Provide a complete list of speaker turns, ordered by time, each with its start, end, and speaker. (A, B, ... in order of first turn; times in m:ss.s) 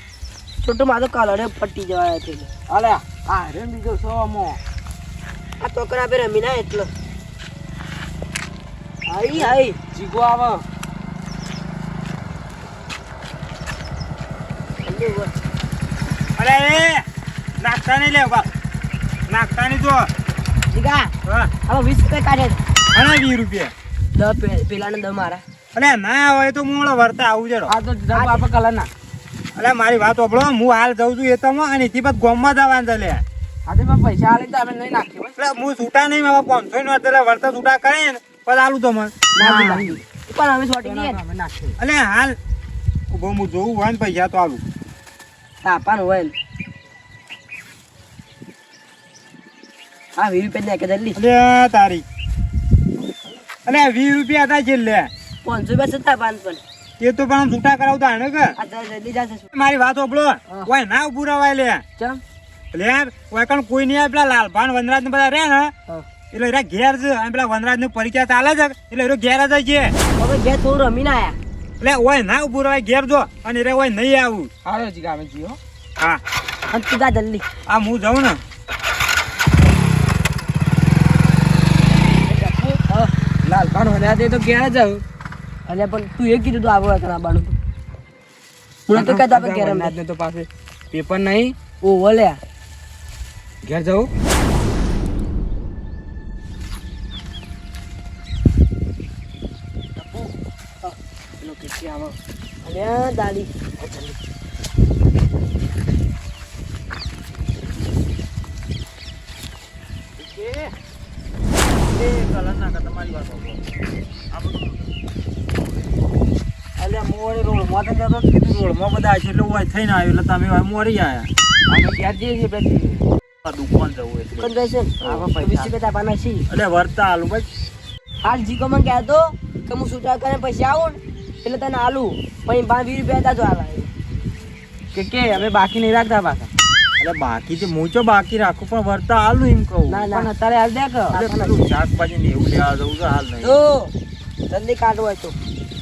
0:00.6-0:02.5 A
0:02.7-0:04.6 B
0:05.6-0:06.9 A
0:09.1-0:09.8 A
0:09.4-0:10.6 B
0:14.8-0:15.4 A
0:16.4-0:17.0 C
0:17.6-0:18.5 C
0:19.3-0:20.1 C
0:20.7-0:21.1 A
0:21.2-0:21.5 C
0:21.7-0:22.6 A
0:22.9-0:23.7 C
0:24.1-0:25.4 A
0:25.7-0:27.7 C
0:27.7-0:28.9 B
0:28.1-0:28.4 A
0:29.6-0:33.2 C
0:33.7-0:35.4 B
0:35.4-0:39.2 C
0:39.4-0:41.2 A
0:39.4-0:40.0 B
0:40.8-0:41.8 B
0:41.8-0:42.4 C
0:43.1-0:44.6 C
0:45.6-0:46.4 A
0:50.2-0:51.2 A
0:51.2-0:52.0 C
0:53.7-0:55.1 C
0:55.4-0:56.6 A
0:57.0-0:58.5 C
0:58.6-0:59.5 A
0:59.5-1:01.8 C
1:02.7-1:05.7 C
1:06.3-1:10.0 C
1:10.2-1:11.4 A
1:11.8-1:14.5 C
1:14.6-1:15.6 B
1:16.7-1:17.4 A
1:17.7-1:18.4 C
1:22.4-1:23.1 A
1:23.4-1:25.0 B
1:25.7-1:27.6 A
1:28.9-1:29.9 A
1:29.0-1:31.6 B
1:31.8-1:32.4 A
1:33.6-1:34.1 B
1:40.0-1:40.3 B
1:41.4-1:42.2 B
1:42.6-1:43.5 A
1:43.8-1:44.2 B
1:50.2-1:50.7 B
1:51.6-1:53.6 C
1:54.3-1:54.9 C
1:56.8-2:01.3 C
2:01.7-2:03.1 B
2:03.4-2:05.3 C
2:04.4-2:06.4 A
2:05.0-2:05.7 B
2:06.5-2:07.5 C
2:08.2-2:13.9 A
2:14.9-2:16.5 B
2:17.0-2:20.0 C
2:19.9-2:20.3 A
2:20.1-2:21.2 B
2:21.1-2:21.7 A
2:21.1-2:23.6 C
2:23.4-2:23.9 A
2:24.5-2:25.4 A